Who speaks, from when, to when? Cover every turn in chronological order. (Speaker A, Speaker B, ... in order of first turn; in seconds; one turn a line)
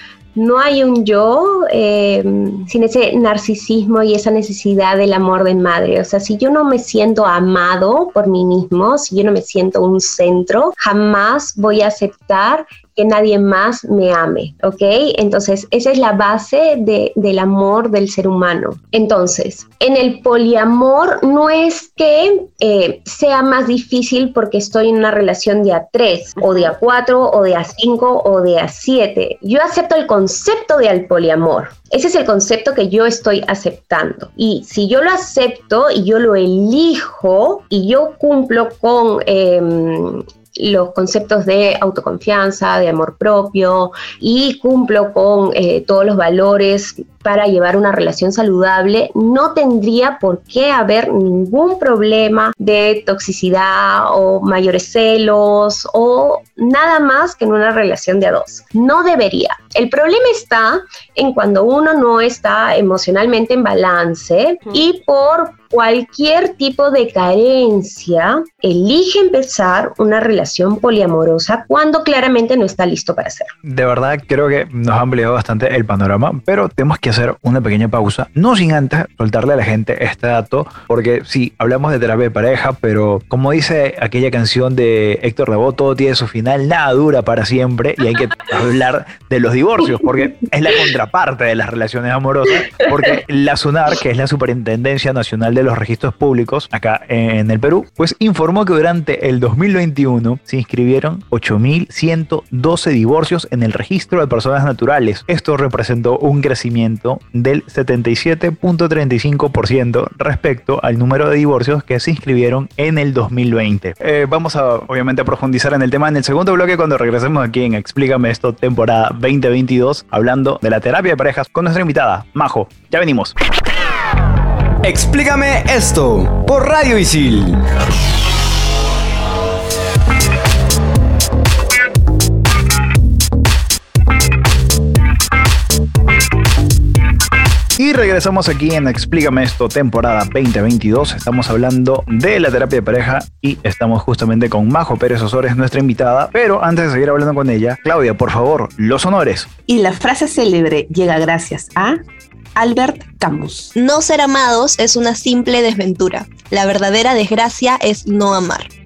Speaker A: 0.3-73.5
Speaker B: 26.4-26.7
Speaker C: 73.6-123.3
Speaker D: 124.8-127.6
Speaker C: 137.8-149.5
Speaker B: 149.7-152.0
Speaker B: 152.6-153.7
Speaker E: 153.7-158.7